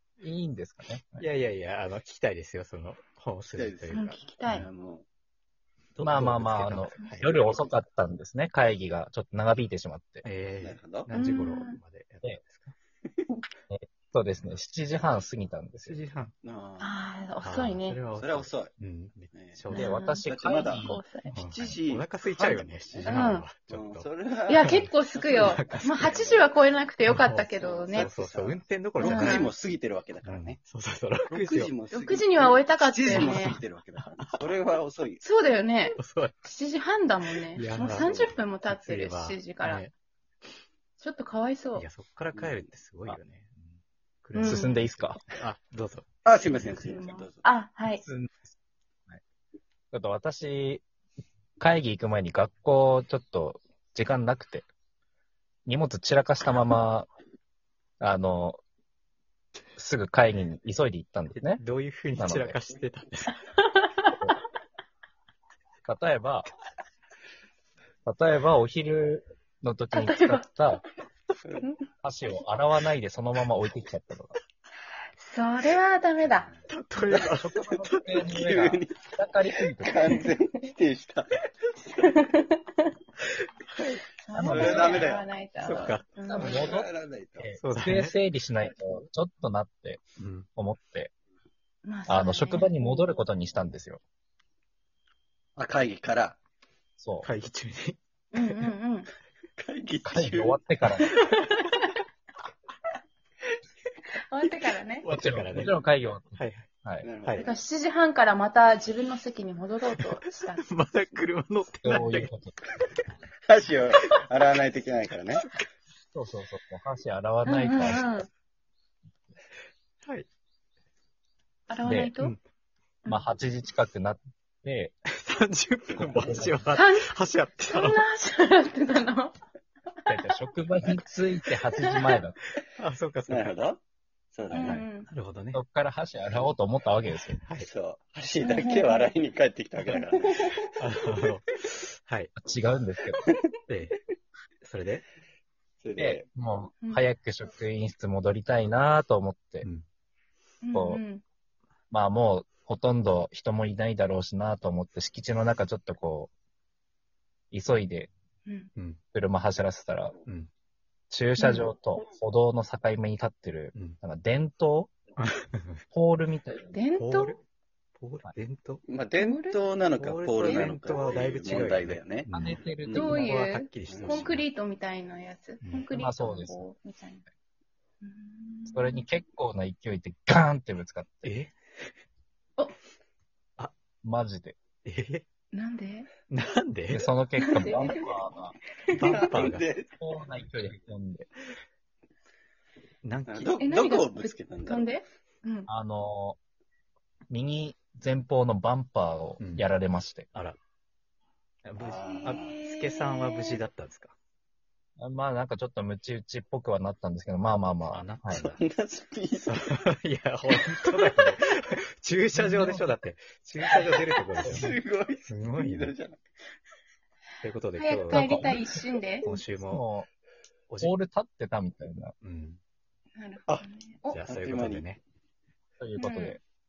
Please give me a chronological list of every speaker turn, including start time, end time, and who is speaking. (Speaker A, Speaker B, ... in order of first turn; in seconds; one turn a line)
Speaker A: 0.2-1.2
Speaker B: 1.2-4.6
Speaker C: 3.5-5.0
Speaker D: 3.9-4.7
Speaker B: 5.9-7.5
Speaker A: 6.0-10.2
Speaker B: 10.2-12.7
Speaker C: 10.6-11.1
Speaker D: 11.1-11.8
Speaker A: 13.7-16.0
Speaker B: 15.8-16.3
Speaker C: 16.4-16.9
Speaker D: 16.8-18.0
Speaker B: 17.4-20.0
Speaker C: 18.1-18.7
Speaker C: 19.3-19.6
Speaker D: 19.7-21.3
Speaker A: 19.7-21.0
Speaker C: 20.2-26.5
Speaker B: 21.3-26.1
Speaker D: 23.0-23.5
Speaker D: 24.5-28.1
Speaker B: 27.1-29.5
Speaker C: 27.5-30.6
Speaker D: 29.0-29.5
Speaker B: 30.2-31.7
Speaker C: 31.3-35.2
Speaker D: 31.9-33.6
Speaker B: 33.1-34.5
Speaker D: 35.2-39.8
Speaker B: 36.0-36.4
Speaker B: 37.5-39.9
Speaker C: 38.0-38.2
Speaker D: 41.0-41.9
Speaker B: 41.7-46.7
Speaker C: 42.3-42.7
Speaker D: 44.3-44.8
Speaker A: 44.4-45.2
Speaker C: 46.2-47.4
Speaker D: 46.8-48.0
Speaker A: 47.9-48.5
Speaker A: 49.9-50.8
Speaker A: 51.6-54.7
Speaker A: 55.6-57.1
Speaker A: 58.0-58.6
Speaker A: 59.8-61.6
Speaker B: 61.3-63.4
Speaker A: 62.2-62.6
Speaker D: 63.8-64.2
Speaker A: 65.8-66.5
Speaker A: 68.0-70.8
Speaker D: 69.9-70.5
Speaker A: 72.0-74.3
Speaker D: 75.2-76.5
Speaker B: 76.7-78.3
Speaker A: 77.1-80.2
Speaker C: 78.3-82.2
Speaker D: 82.0-82.6
Speaker B: 83.4-85.0
Speaker D: 84.2-86.7
Speaker A: 84.3-85.0
Speaker C: 84.4-85.3
Speaker B: 85.6-86.1
Speaker A: 86.3-90.0
Speaker C: 86.4-87.5
Speaker B: 87.6-88.1
Speaker B: 90.2-90.5
Speaker A: 90.5-91.1
Speaker D: 91.8-92.8
Speaker A: 92.1-94.0
Speaker C: 95.5-96.4
Speaker A: 97.0-97.3
Speaker B: 97.2-98.7
Speaker D: 98.3-99.1
Speaker C: 99.6-100.6
Speaker A: 100.0-101.2
Speaker D: 101.0-101.9
Speaker D: 104.3-105.1
Speaker B: 105.0-105.8
Speaker A: 105.1-107.1
Speaker B: 106.4-106.7
Speaker C: 107.0-107.6
Speaker B: 107.2-107.5
Speaker D: 107.4-110.7
Speaker B: 109.9-112.3
Speaker A: 111.8-112.6
Speaker C: 113.5-115.4
Speaker B: 115.3-115.6
Speaker A: 116.1-118.3
Speaker D: 117.4-118.3
Speaker D: 121.7-122.3
Speaker A: 121.8-122.2
Speaker A: 123.1-124.9
Speaker B: 125.1-128.0
Speaker C: 125.9-126.3
Speaker A: 126.1-126.7
Speaker D: 126.7-127.1
Speaker D: 127.7-129.3
Speaker A: 130.1-132.3
Speaker D: 131.7-132.2
Speaker B: 132.6-133.6
Speaker C: 133.3-133.8
Speaker C: 134.3-134.8
Speaker D: 134.5-135.1
Speaker B: 134.5-135.6
Speaker A: 135.5-137.4
Speaker B: 137.4-137.7
Speaker C: 137.6-140.7
Speaker D: 138.4-139.1
Speaker B: 140.3-142.3
Speaker A: 142.3-143.3
Speaker B: 143.7-144.0
Speaker B: 144.6-145.0
Speaker C: 145.8-146.2
Speaker A: 146.0-149.7
Speaker D: 150.6-151.2
Speaker A: 150.7-151.0
Speaker A: 151.9-156.3
Speaker A: 157.5-158.1
Speaker A: 159.1-160.2
Speaker A: 161.1-164.9
Speaker D: 161.4-161.7
Speaker B: 165.2-165.8
Speaker A: 165.9-166.7
Speaker D: 166.6-167.3
Speaker B: 166.9-167.4
Speaker B: 168.0-168.8
Speaker C: 168.9-172.3
Speaker D: 169.2-169.6
Speaker B: 170.0-174.5
Speaker D: 170.4-171.2
Speaker A: 172.3-173.4
Speaker C: 172.8-173.2
Speaker D: 172.9-177.2
Speaker C: 173.9-174.2
Speaker A: 175.9-176.7
Speaker D: 178.0-179.0
Speaker A: 178.7-181.3
Speaker B: 181.2-181.5
Speaker A: 184.0-184.6
Speaker B: 184.8-185.2
Speaker D: 185.5-186.1
Speaker B: 186.3-187.1
Speaker A: 186.9-188.6
Speaker D: 187.4-188.1
Speaker B: 188.9-189.6
Speaker D: 188.9-189.2
Speaker C: 189.0-189.9
Speaker A: 190.0-191.3
Speaker B: 193.0-193.5
Speaker C: 193.3-194.9
Speaker D: 193.6-195.7
Speaker A: 195.7-196.4
Speaker A: 197.3-200.3
Speaker B: 199.4-199.7
Speaker B: 201.6-204.1
Speaker C: 201.8-202.5
Speaker D: 202.2-203.6
Speaker A: 205.0-208.5
Speaker B: 207.9-208.6
Speaker C: 208.4-209.8
Speaker B: 209.4-214.7
Speaker A: 212.3-212.9
Speaker C: 213.7-216.2
Speaker B: 215.3-215.9
Speaker B: 217.4-218.6
Speaker D: 217.8-219.2
Speaker A: 218.1-218.7
Speaker B: 219.2-219.8
Speaker A: 219.3-220.1
Speaker A: 220.8-222.1
Speaker B: 222.2-222.6
Speaker D: 223.2-224.2
Speaker B: 224.1-225.0
Speaker C: 224.2-224.9
Speaker A: 225.8-226.4
Speaker D: 226.0-226.4